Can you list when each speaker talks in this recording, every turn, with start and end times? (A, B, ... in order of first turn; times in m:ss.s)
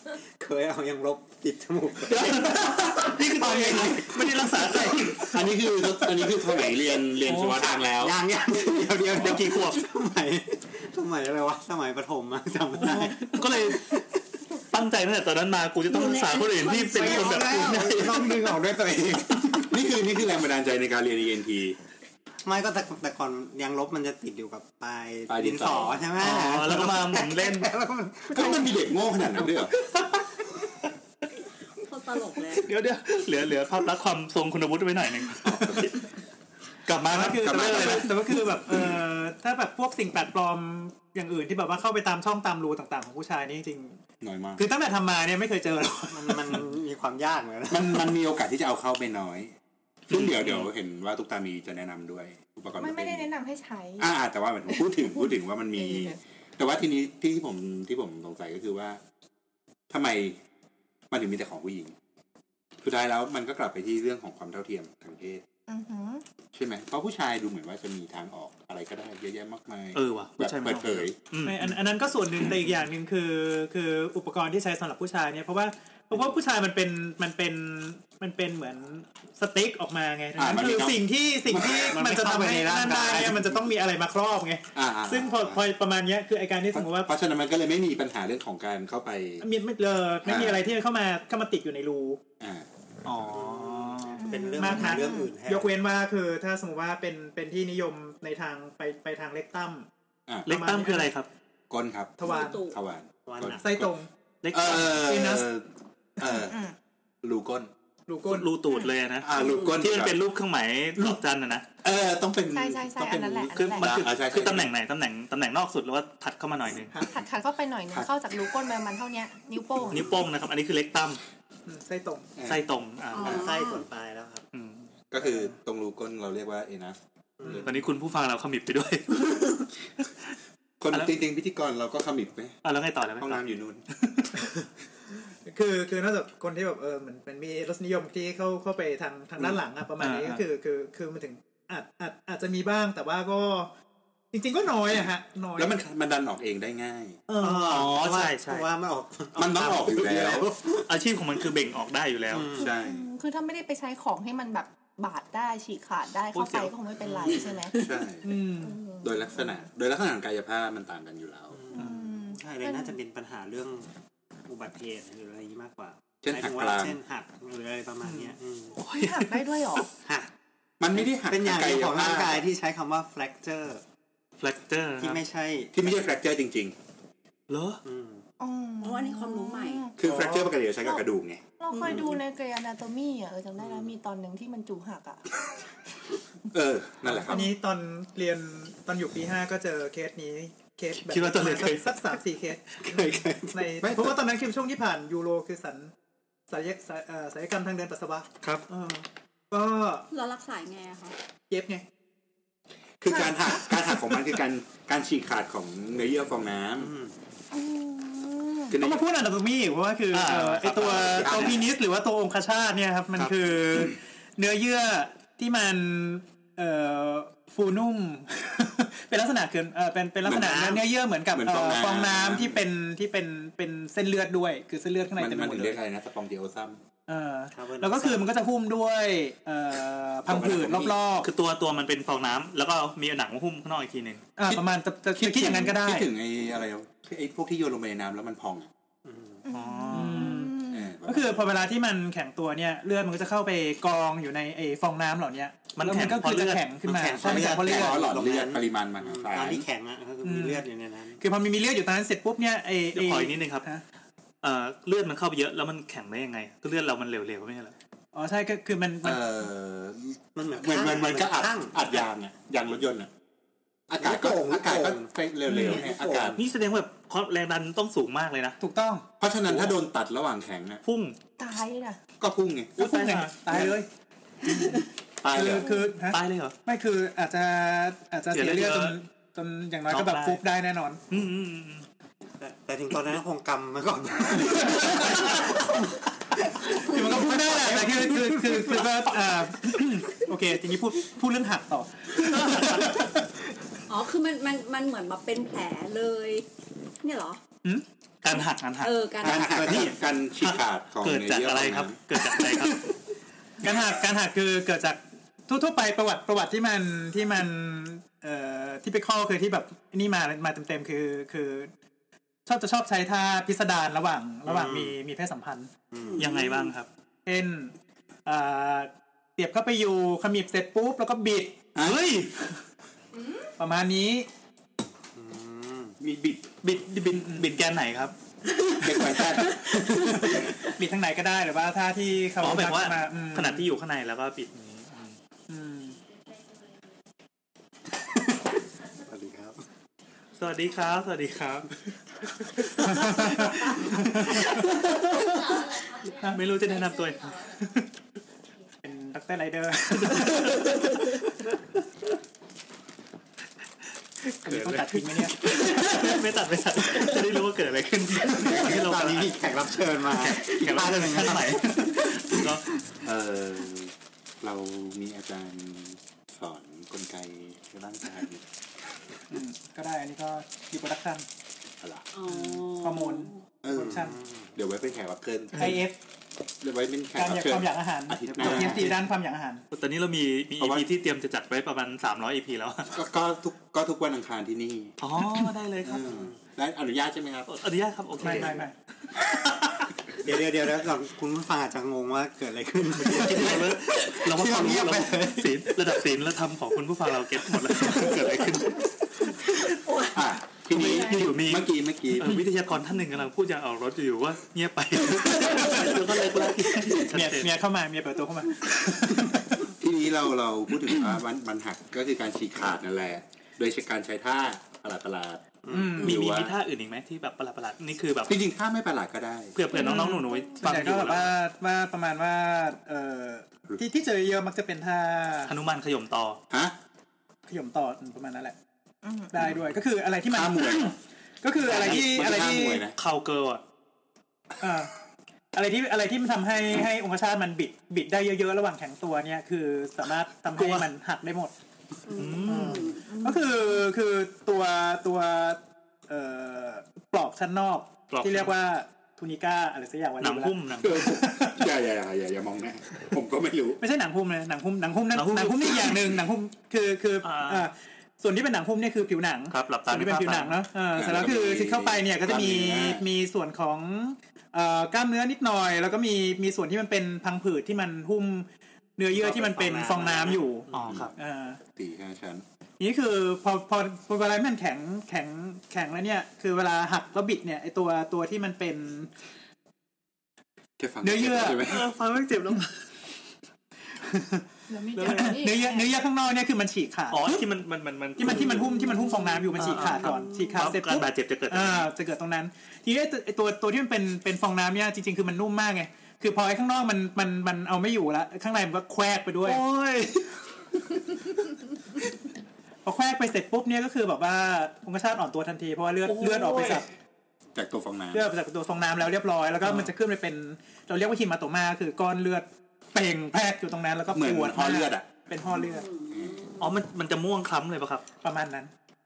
0:00.4-0:05.2 A
0:02.1-0:05.2 B
0:05.0-0:08.2 C
0:07.2-0:07.7 B
0:07.9-0:14.0 A
0:09.1-0:09.8 B
0:12.8-0:14.0 B
0:14.7-0:18.4 B
0:15.9-0:18.1 D
0:16.8-0:19.8 A
0:19.7-0:21.8 C
0:22.4-0:28.9 A
0:25.3-0:26.1 C
0:26.2-0:27.7 B
0:28.3-0:29.7 C
0:31.8-0:32.7 D
0:32.6-0:36.0 B
0:35.4-0:35.9 C
0:36.9-0:38.1 B
0:37.1-0:44.0 E
0:37.3-0:38.9 C
0:44.2-0:44.6 C
0:44.6-0:46.6 E
0:46.1-0:48.2 A
0:47.7-0:49.5 C
0:50.1-0:53.3 C
0:50.1-0:50.7 B
0:52.8-0:54.1 F
0:54.0-0:59.0 C
0:54.7-0:56.2 F
0:59.9-1:00.4 C
1:01.1-1:01.9 C
1:02.8-1:05.4 C
1:05.7-1:06.2 F
1:06.5-1:11.2 C
1:10.0-1:11.8 B
1:11.4-1:27.1 E
1:20.4-1:22.0 C
1:21.6-1:23.7 A
1:24.7-1:25.6 C
1:26.7-1:29.4 C
1:29.4-1:32.2 E
1:30.2-1:30.6 C
1:32.4-1:32.7 C
1:33.0-1:34.2 B
1:33.3-1:35.8 A
1:34.2-1:35.3 F
1:34.6-1:39.9 E
1:40.5-1:41.1 E
1:40.5-1:41.3 B
1:41.7-1:43.9 C
1:42.2-1:42.6 E
1:42.2-1:42.8 D
1:43.3-1:43.7 A
1:43.6-1:44.1 E
1:44.4-1:45.1 B
1:44.5-1:45.7 C
1:44.8-1:45.5 E
1:46.2-1:46.6 C
1:46.4-1:46.7 F
1:47.2-1:47.7 C
1:48.1-1:48.5 E
1:48.2-1:51.7 B
1:49.2-1:50.2 C
1:51.8-1:54.7 C
1:52.5-1:54.0 F
1:53.5-1:56.9 B
1:57.0-2:00.1 F
1:59.9-2:01.2 B
2:01.7-2:02.3 E
2:02.4-2:02.6 C
2:02.4-2:03.5 B
2:03.1-2:03.8 D
2:03.2-2:04.4 A
2:04.5-2:04.9 B
2:05.1-2:07.6 C
2:05.2-2:05.5 E
2:07.5-2:10.1 B
2:10.8-2:12.6 C
2:12.6-2:13.4 B
2:13.2-2:13.8 C
2:15.4-2:23.7 E
2:20.0-2:20.4 B
2:24.3-2:25.7 E
2:25.6-2:27.2 C
2:27.3-2:27.9 E
2:27.4-2:30.9 A
2:27.6-2:28.7 B
2:29.4-2:30.5 C
2:30.8-2:32.5 B
2:32.3-2:32.7 A
2:32.6-2:37.7 F
2:32.6-2:33.1 C
2:36.3-2:36.7 B
2:37.0-2:37.7 A
2:37.7-2:38.4 C
2:38.2-2:38.8 E
2:38.6-2:39.6 F
2:39.0-2:41.6 C
2:41.5-2:43.9 A
2:41.7-2:43.0 F
2:44.4-2:48.8 A
2:46.2-2:47.0 C
2:48.0-2:49.8 B
2:48.9-2:49.9 F
2:50.0-2:50.3 A
2:50.8-2:52.4 C
2:50.9-2:53.8 A
2:54.4-2:55.2 B
2:55.0-2:55.8 A
2:55.7-2:56.8 C
2:57.5-2:57.8 B
2:57.8-2:58.2 A
2:58.4-3:00.0 F
2:58.8-2:59.9 D
3:00.0-3:02.0 C
3:00.0-3:00.5 E
3:01.6-3:05.2 F
3:03.6-3:03.9 A
3:06.5-3:07.5 C
3:07.1-3:15.9 E
3:11.0-3:12.1 B
3:12.8-3:13.8 A
3:13.8-3:14.2 C
3:16.5-3:20.0 E
3:20.1-3:21.2 D
3:21.5-3:21.8 E
3:23.0-3:26.9 C
3:23.8-3:24.2 E
3:26.8-3:27.1 A
3:27.5-3:28.7 F
3:28.7-3:29.0 C
3:28.8-3:45.8 E
3:30.1-3:31.6 B
3:31.1-3:31.6 C
3:40.2-3:40.8 C
3:40.3-3:40.8 A
3:41.3-3:42.6 C
3:45.2-3:46.8 C
3:47.1-3:51.3 E
3:47.5-3:48.3 A
3:50.3-3:51.0 C
3:51.2-3:54.3 B
3:54.4-3:56.1 E
3:55.1-3:58.7 C
3:59.0-3:59.4 A
3:59.4-4:00.9 F
3:59.5-4:00.4 B
3:59.9-4:08.0 E
4:00.7-4:01.6 C
4:05.7-4:06.6 B
4:06.8-4:11.2 A
4:07.2-4:09.7 C
4:10.2-4:10.6 E
4:11.2-4:13.8 E
4:12.9-4:13.7 B
4:14.4-4:17.7 B
4:18.1-4:19.2 E
4:19.0-4:23.1 C
4:20.4-4:22.0 A
4:23.9-4:26.4 C
4:24.0-4:26.4 A
4:25.5-4:25.8 E
4:26.4-4:28.6 B
4:28.6-4:29.0 E
4:29.2-4:30.8 C
4:30.8-4:31.2 B
4:31.4-4:32.0 F
4:32.2-4:32.8 C
4:32.8-4:33.9 E
4:32.8-4:33.7 B
4:35.2-4:35.7 C
4:35.3-4:41.0 E
4:36.1-4:36.6 B
4:38.3-4:39.0 B
4:39.9-4:40.4 B
4:41.1-4:41.9 B
4:42.4-4:49.7 A
4:44.6-4:45.5 E
4:44.9-4:45.4 B
4:46.6-4:53.4 E
4:52.2-4:53.0 B
4:53.9-4:56.5 D
4:57.0-4:57.4 D
4:58.2-4:59.0 B
4:58.8-4:59.9 D
4:59.2-5:02.0 C
4:59.3-4:59.9 A
4:59.7-5:02.9 B
5:03.6-5:11.7 E
5:12.4-5:15.7 E
5:14.4-5:15.0 A
5:15.9-5:16.4 A
5:16.0-5:16.4 D
5:16.2-5:16.9 B
5:17.3-5:17.7 E
5:18.3-5:21.6 E
5:21.7-5:22.0 C
5:21.8-5:22.6 B
5:23.6-5:24.3 E
5:25.1-5:26.0 A
5:26.0-5:26.6 C
5:26.6-5:28.1 B
5:27.1-5:27.5 E
5:28.8-5:29.6 C
5:29.7-5:30.4 A
5:30.2-5:33.7 E
5:32.4-5:35.2 B
5:35.5-5:36.0 E
5:39.0-5:39.6 A
5:40.4-5:41.7 B
5:42.3-5:47.6 B
5:42.8-5:44.3 E
5:48.8-5:51.4 E
5:49.9-5:51.2 B
5:54.3-5:59.5 B
5:54.4-5:56.2 E
5:58.3-6:02.6 A
6:00.1-6:02.7 B
6:03.0-6:08.4 C
6:09.3-6:11.2 E
6:11.8-6:12.0 C
6:12.1-6:13.4 D
6:12.2-6:14.2 E
6:13.6-6:15.9 C
6:13.7-6:14.5 A
6:15.6-6:16.0 E
6:16.6-6:19.0 C
6:17.2-6:19.6 E
6:18.3-6:19.0 A
6:19.7-6:23.0 B
6:20.6-6:20.9 C
6:22.9-6:25.0 C
6:25.0-6:26.1 B
6:25.8-6:27.6 C
6:26.0-6:26.3 A
6:27.5-6:28.7 B
6:28.2-6:28.6 C
6:28.2-6:28.7 E
6:30.2-6:35.7 A
6:33.0-6:38.9 B
6:39.8-6:40.1 D
6:40.1-6:42.4 C
6:40.7-6:47.5 B
6:45.3-6:46.1 E
6:46.8-6:49.7 E
6:49.7-6:56.6 C
6:55.6-6:56.0 A
6:55.7-6:56.2 E
6:56.0-6:58.3 B
6:58.3-6:59.6 C
6:59.6-7:01.3 B
6:59.7-7:05.5 E
6:59.7-7:00.6 F
7:05.5-7:06.4 B
7:06.5-7:06.8 C
7:07.5-7:08.6 E
7:09.0-7:09.3 F
7:09.3-7:12.9 E
7:09.4-7:09.7 C
7:10.3-7:11.0 C
7:11.6-7:12.9 C
7:11.6-7:13.6 B
7:14.6-7:14.9 E
7:15.5-7:21.5 E
7:20.6-7:20.9 B
7:22.1-7:23.3 D
7:22.2-7:22.9 B
7:22.4-7:31.7 E
7:23.1-7:23.4 F
7:28.1-7:28.5 B
7:30.2-7:31.0 B
7:30.8-7:33.8 C
7:33.8-7:51.6 E
7:35.1-7:36.0 B
7:37.2-7:37.7 B
7:39.5-7:40.6 B
7:41.0-7:43.1 C
7:49.1-7:51.0 A
7:50.7-7:51.1 B
7:51.7-7:52.4 C
7:52.8-7:59.1 E
8:00.8-8:01.9 C
8:01.0-8:01.7 E
8:01.6-8:02.7 B
8:03.9-8:07.4 E
8:04.7-8:06.0 F
8:07.1-8:11.9 B
8:08.2-8:19.6 E
8:19.4-8:20.3 B
8:22.8-8:26.9 E
8:26.0-8:26.8 B
8:27.6-8:28.3 C
8:28.1-8:35.9 E
8:29.6-8:29.9 B
8:34.1-8:35.2 C
8:35.5-8:36.7 D
8:36.1-8:36.5 C
8:36.6-8:38.0 B
8:38.2-8:38.7 E